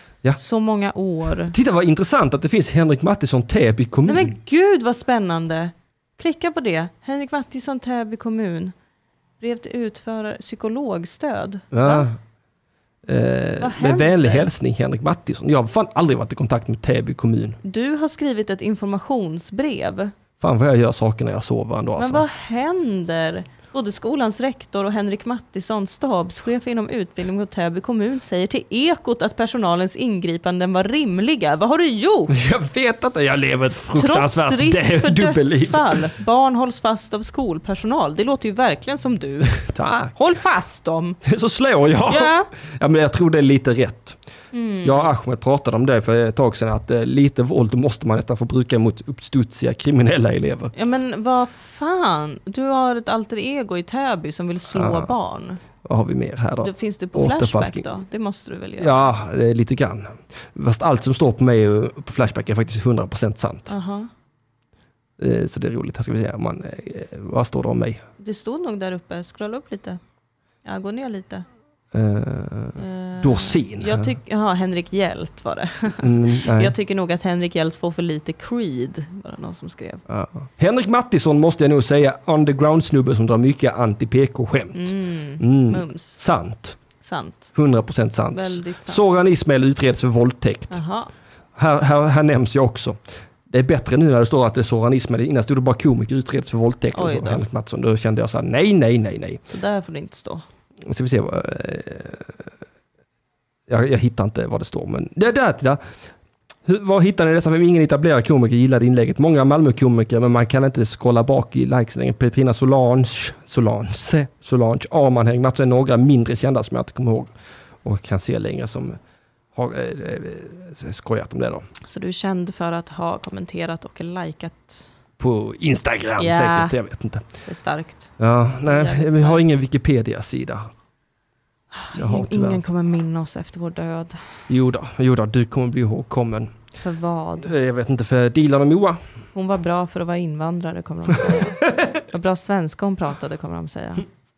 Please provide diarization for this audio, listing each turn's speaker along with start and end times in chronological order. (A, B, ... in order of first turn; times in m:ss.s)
0:00.4-0:01.5 A
0:01.5-0:04.3 B
0:04.0-0:08.7 A
0:09.4-0:12.1 A
0:11.7-0:12.2 B
0:13.0-0:17.6 B
0:13.6-0:14.5 A
0:17.6-0:20.1 A
0:20.4-0:22.2 B
0:22.0-0:32.3 A
0:32.3-0:36.1 B
0:33.9-0:39.6 A
0:39.5-0:40.1 B
0:40.1-0:41.2 A
0:41.2-0:44.2 B
0:42.1-0:42.5 A
0:44.5-0:45.1 A
0:44.8-0:50.7 B
0:50.7-0:55.6 A
0:54.7-0:55.1 B
0:55.8-0:57.8 B
0:56.6-0:59.1 A
0:58.8-1:03.7 B
1:03.7-1:04.1 A
1:05.2-1:08.0 B
1:08.2-1:10.0 A
1:10.6-1:11.4 A
1:11.9-1:14.1 B
1:12.8-1:20.0 A
1:15.9-1:16.7 B
1:20.1-1:26.8 B
1:24.7-1:26.2 A
1:27.0-1:27.5 A
1:27.5-1:30.8 B
1:28.3-1:29.0 A
1:30.7-1:31.1 A
1:31.5-1:33.0 B
1:33.5-1:39.4 B
1:36.9-1:37.4 A
1:39.5-1:40.4 A
1:40.8-1:42.5 B
1:43.7-1:45.8 B
1:46.6-1:57.3 B
1:57.8-1:59.0 B
1:59.5-2:01.7 B
2:01.8-2:04.9 A
2:05.2-2:07.3 B
2:06.2-2:06.7 A
2:07.4-2:09.4 A
2:08.2-2:10.7 B
2:11.7-2:14.3 A
2:11.9-2:12.6 B
2:14.5-2:16.5 B
2:16.8-2:17.5 A
2:17.4-2:19.0 B
2:19.3-2:24.0 A
2:21.2-2:21.9 B